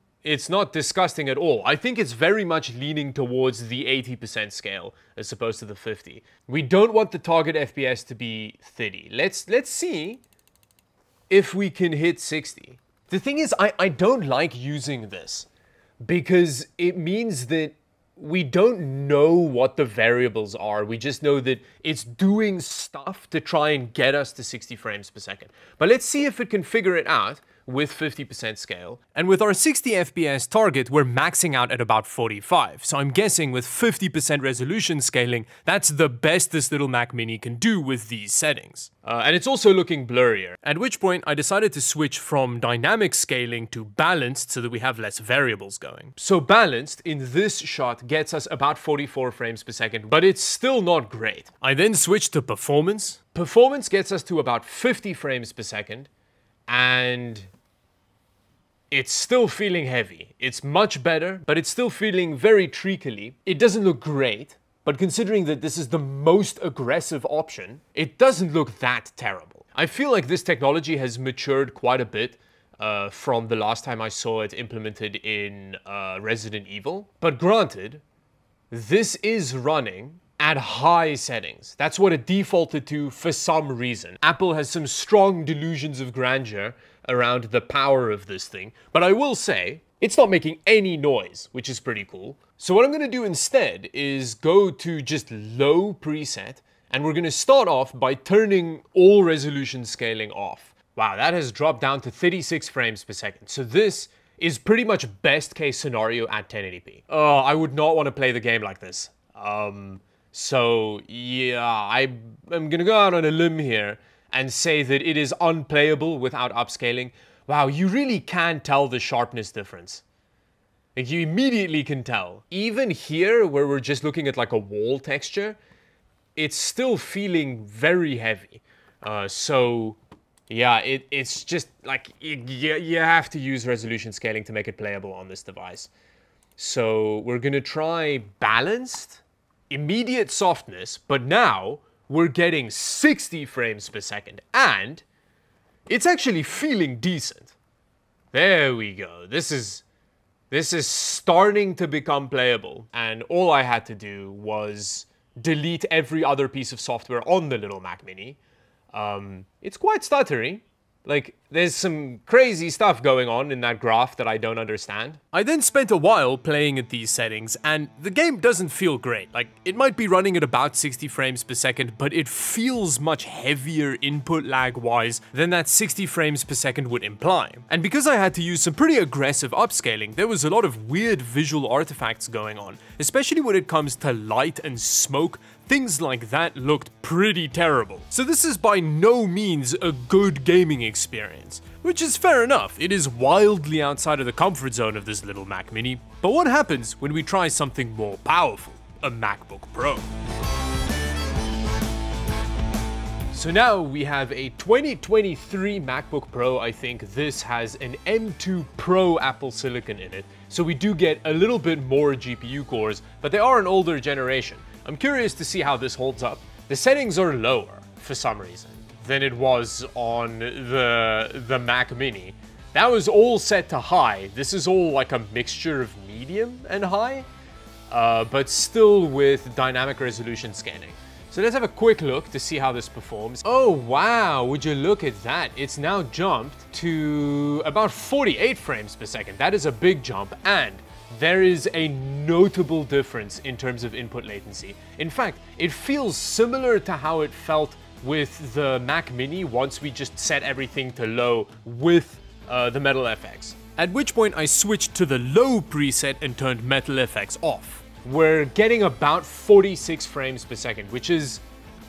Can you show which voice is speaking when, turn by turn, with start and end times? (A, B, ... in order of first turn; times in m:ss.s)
0:00.2-0:10.2 A
0:11.3-0:15.5 A
0:16.0-0:56.1 A
0:56.7-0:57.5 A
0:58.9-1:18.0 A
1:18.7-2:00.0 A
2:01.0-2:05.6 A
2:06.4-2:10.0 A
2:10.5-2:15.9 A
2:16.6-2:25.0 A
2:25.9-2:27.5 A
2:28.3-2:29.8 A
2:30.5-2:38.4 A
2:38.9-3:20.1 A
3:23.3-3:47.3 A
3:47.9-4:21.4 A